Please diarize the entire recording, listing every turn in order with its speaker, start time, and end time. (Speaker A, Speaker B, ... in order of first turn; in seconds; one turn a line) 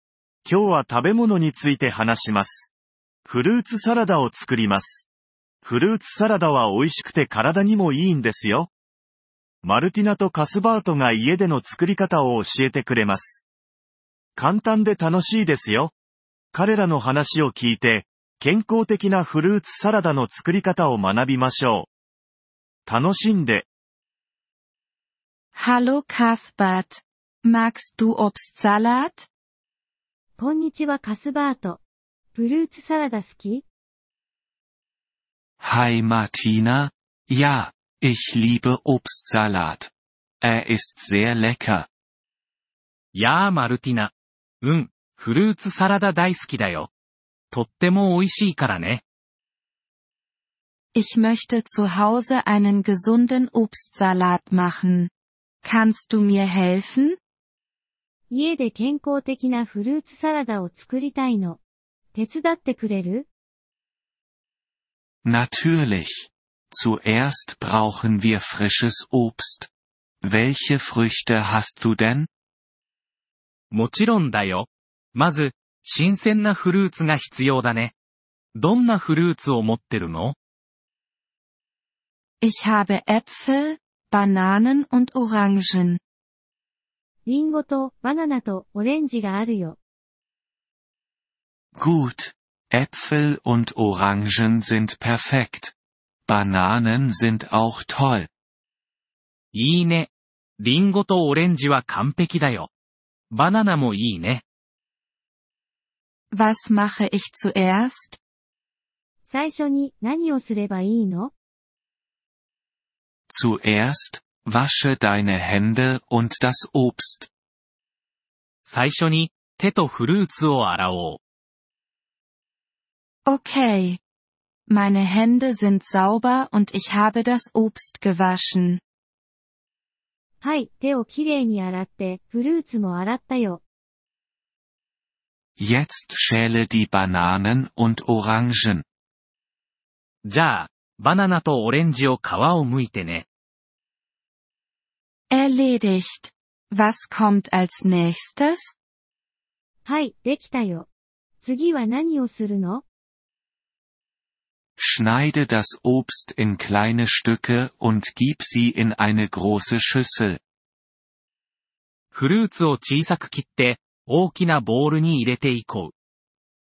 Speaker A: 0.5-2.7
Speaker A: 3.3-5.1
Speaker A: 5.6-8.7
Speaker A: 9.6-13.4
Speaker A: 14.4-15.9
Speaker A: 16.5-21.9
Speaker A: 22.9-23.7
Speaker B: 25.6-29.3
Speaker C: 30.4-31.8
Speaker C: 32.3-33.7
Speaker D: 35.6-41.9
Speaker E: 43.1-46.9
Speaker E: 47.5-49.0
Speaker B: 50.9-55.1
Speaker B: 55.6-57.2
Speaker C: 58.3-61.6
Speaker C: 62.1-63.3
Speaker D: 65.2-69.7
Speaker D: 70.2-72.3
Speaker E: 73.7-77.9
Speaker E: 78.5-80.4
Speaker B: 82.4-86.0
Speaker C: 87.3-89.8
Speaker D: 91.8-95.7
Speaker D: 96.3-98.3
Speaker E: 99.5-102.7
Speaker E: 103.3-104.4
Speaker B: 106.3-108.2
Speaker C: 109.3-111.3
Speaker D: 113.3-117.3
Speaker E: 118.7-121.2
Speaker B: 123.3-124.0
Speaker B: 124.7-128.8
Speaker C: 130.4-133.6
Speaker D: 135.6-138.8
Speaker E: 140.2-143.3
Speaker B: 145.3-148.7
Speaker C: 149.8-150.9
Speaker C: 151.4-152.8
Speaker D: 154.8-160.4
Speaker E: 162.1-165.9